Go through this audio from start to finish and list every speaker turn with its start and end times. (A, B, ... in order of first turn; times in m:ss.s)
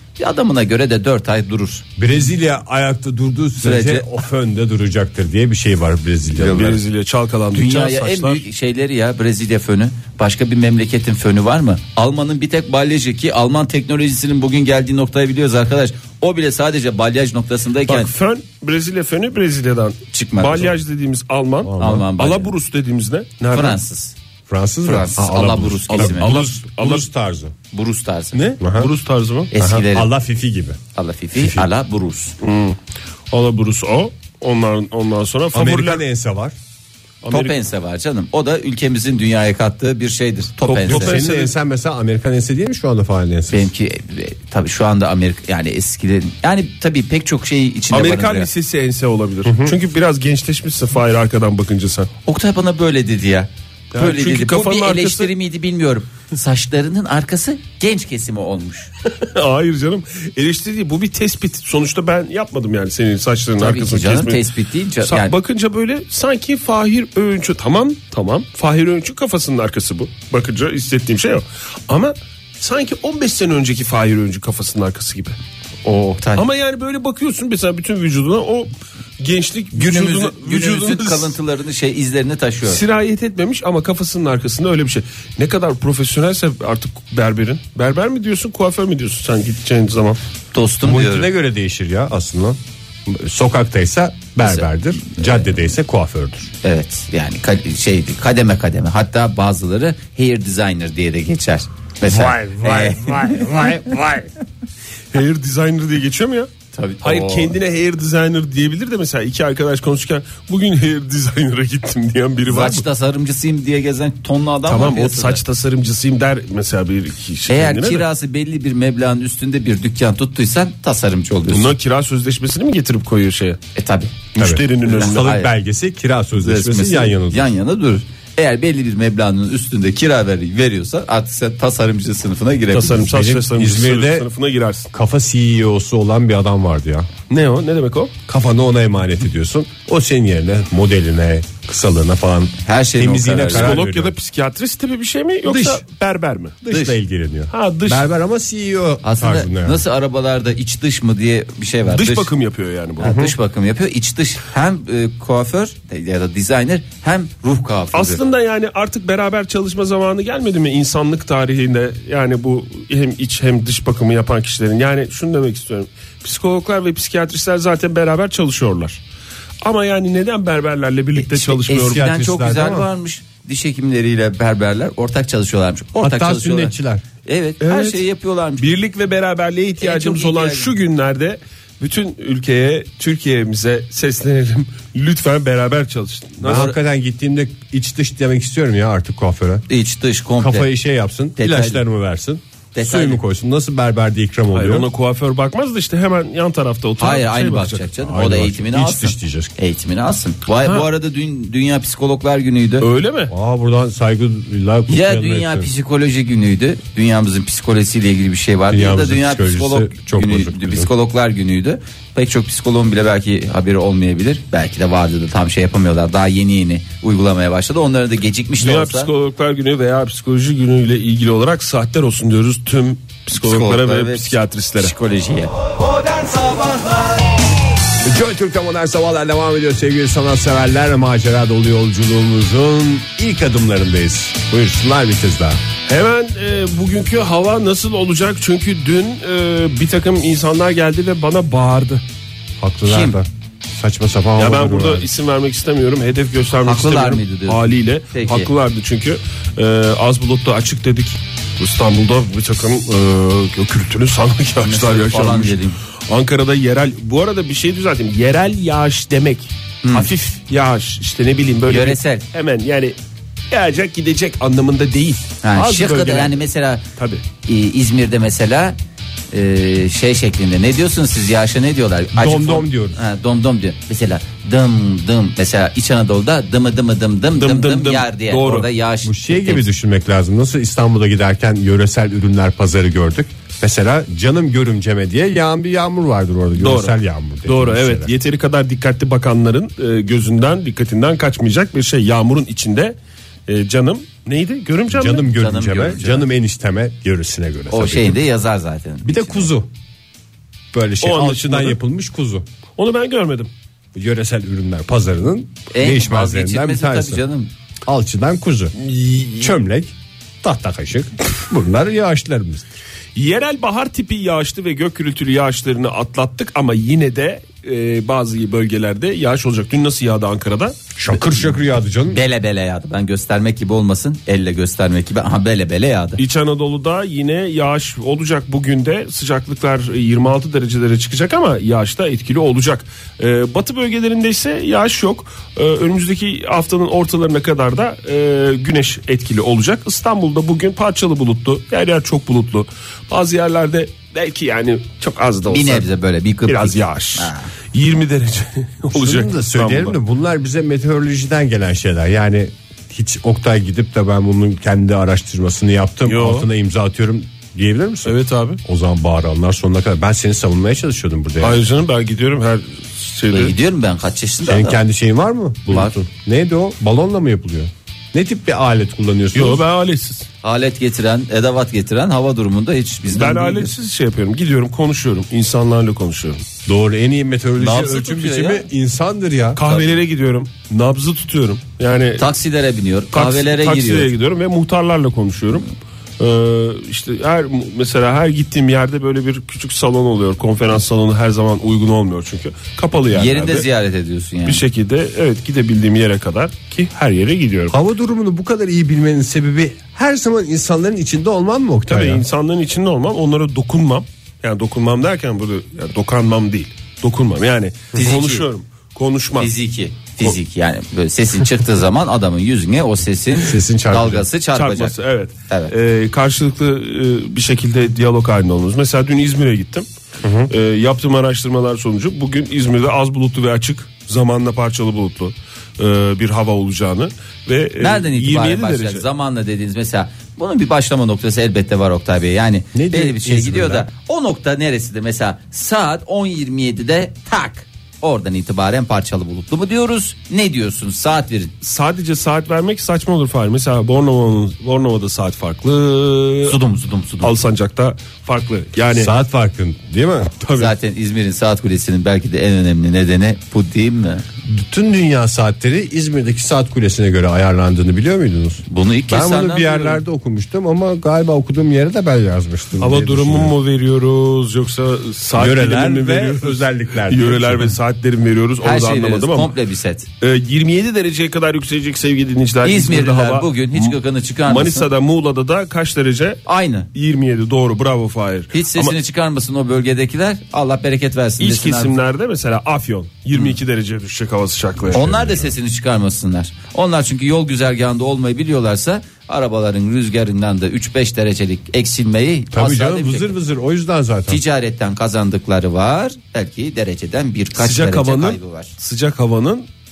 0:00.2-0:01.8 A
0:02.0-0:06.8 B
0:03.6-0:04.1 A
0:06.4-0:08.4 C
0:07.5-0:18.1 A
0:17.9-0:23.8 C
0:20.1-0:20.8 A
0:21.6-0:22.0 B
0:21.8-0:22.5 A
0:23.5-0:24.2 A
0:24.5-0:27.5 B
0:24.8-0:26.3 A
0:25.9-0:27.1 C
0:27.7-0:28.4 A
0:28.3-0:29.5 C
0:28.6-0:28.9 B
0:29.5-0:30.1 A
0:29.5-0:30.8 B
0:31.0-0:32.4 A
0:31.4-0:31.7 B
0:32.4-0:32.8 C
0:33.3-0:36.0 C
0:35.5-0:36.5 B
0:37.2-0:37.6 C
0:37.3-0:41.1 A
0:40.7-0:43.7 B
0:40.7-0:41.5 C
0:43.5-0:48.5 A
0:47.9-0:52.1 C
0:49.4-0:49.8 B
0:52.3-0:58.9 A
0:53.9-0:55.3 C
0:59.1-1:04.4 C
1:03.6-1:05.3 A
1:05.0-1:15.4 C
1:15.8-1:16.4 A
1:16.4-1:21.4 C
1:19.7-1:22.8 A
1:22.6-1:30.2 C
1:30.5-1:31.3 A
1:30.8-1:36.5 B
1:34.4-1:35.5 A
1:36.6-1:44.3 A
1:42.1-1:44.1 B
1:45.1-1:46.5 C
1:46.7-1:47.6 A
1:47.0-1:52.8 C
1:52.5-1:55.4 A
1:54.7-1:58.1 C
1:57.5-2:01.7 A
2:01.5-2:03.6 C
2:03.8-2:04.3 A
2:04.3-2:05.3 C
2:04.4-2:07.5 B
2:04.8-2:05.5 A
2:06.3-2:13.1 A
2:12.7-2:14.9 C
2:13.0-2:14.3 B
2:14.9-2:17.1 B
2:17.3-2:18.1 C
2:18.3-2:24.1 B
2:22.6-2:23.8 A
2:23.5-2:27.0 C
2:25.5-2:25.8 B
2:26.6-2:29.8 B
2:27.5-2:28.1 C
2:29.0-2:32.3 A
2:31.9-2:33.1 C
2:33.0-2:38.2 A
2:33.0-2:33.4 B
2:37.9-2:49.0 C
2:49.6-2:52.0 C
2:51.2-2:56.7 A
2:51.7-2:52.9 B
2:56.0-2:57.0 B
2:57.2-2:58.7 A
2:57.6-2:58.0 C
2:58.6-3:06.8 C
2:59.8-3:00.7 A
3:06.4-3:09.7 B
3:09.7-3:10.7 A
3:10.4-3:14.9 B
3:11.4-3:11.8 A
3:12.7-3:13.2 A
3:14.5-3:17.9 C
3:17.0-3:22.9 A
3:18.0-3:19.5 B
3:22.8-3:23.3 C
3:23.3-3:25.7 B
3:24.9-3:39.1 A
3:28.7-3:30.9 B
3:38.6-3:44.9 C
3:43.3-3:45.6 A
3:48.0-3:55.6 B
3:55.9-4:02.0 C
4:02.6-4:05.1 B
4:02.9-4:03.2 A
4:04.4-4:23.0 C
4:06.6-4:08.5 A
4:14.6-4:15.8 A
4:19.8-4:20.1 A
4:21.7-4:22.2 A
4:23.5-4:26.4 C
4:25.4-4:26.8 A
4:27.0-4:27.2 C
4:27.4-4:28.8 A
4:29.3-4:39.7 A
4:32.2-4:33.0 B
4:37.3-4:38.7 C
4:39.0-4:48.1 B
4:46.6-4:53.0 C
4:53.5-4:55.3 C
4:54.9-4:58.2 B
4:55.3-4:56.3 A
4:57.7-4:59.5 A
4:59.0-4:59.7 B
5:00.7-5:02.5 B
5:01.0-5:01.8 C
5:02.8-5:03.5 C
5:03.9-5:07.2 B
5:05.7-5:07.5 A
5:07.8-5:08.8 B
5:08.8-5:09.5 C
5:09.4-5:12.7 B
5:13.2-5:20.8 C
5:21.0-5:22.2 B
5:22.1-5:26.2 A
5:26.2-5:45.8 C
5:45.5-5:47.5 A
5:46.4-5:50.0 C
5:48.9-6:01.6 B
5:56.0-5:56.5 C
5:58.1-5:58.6 C
6:01.4-6:03.6 C
6:03.3-6:04.8 A
6:04.5-6:09.6 B
6:09.3-6:10.3 C
6:10.4-6:13.7 A
6:13.1-6:16.4 C
6:16.7-6:19.6 B
6:17.6-6:18.7 A
6:19.6-6:22.3 C
6:19.6-6:19.9 A
6:22.2-6:24.1 A
6:23.1-6:25.7 C
6:26.2-6:33.7 C
6:33.1-6:34.6 A
6:34.4-6:37.8 C
6:37.7-6:42.2 B
6:41.9-6:49.5 C
6:47.9-6:48.5 A
6:49.4-6:55.0 A
6:53.4-6:54.3 B
6:54.6-6:59.9 C
7:00.2-7:00.5 B
7:00.5-7:09.0 C
7:07.8-7:21.5 A
7:12.7-7:13.9 B
7:21.6-7:26.6 C
7:26.4-7:27.3 A
7:27.2-7:29.1 C
7:28.9-7:30.4 B
7:30.4-7:30.7 C
7:30.6-7:34.2 A
7:34.4-7:43.6 B
7:38.7-7:40.0 A
7:42.8-7:49.6 C
7:45.4-7:47.7 B
7:48.6-7:50.1 A
7:50.2-7:56.4 C
7:52.6-7:54.9 A
7:56.5-7:56.9 A
7:56.9-7:59.0 C
7:58.5-8:02.0 A
8:01.4-8:05.5 C
8:04.9-8:13.4 A
8:12.5-8:14.4 B
8:14.3-8:18.7 A
8:17.6-8:19.7 C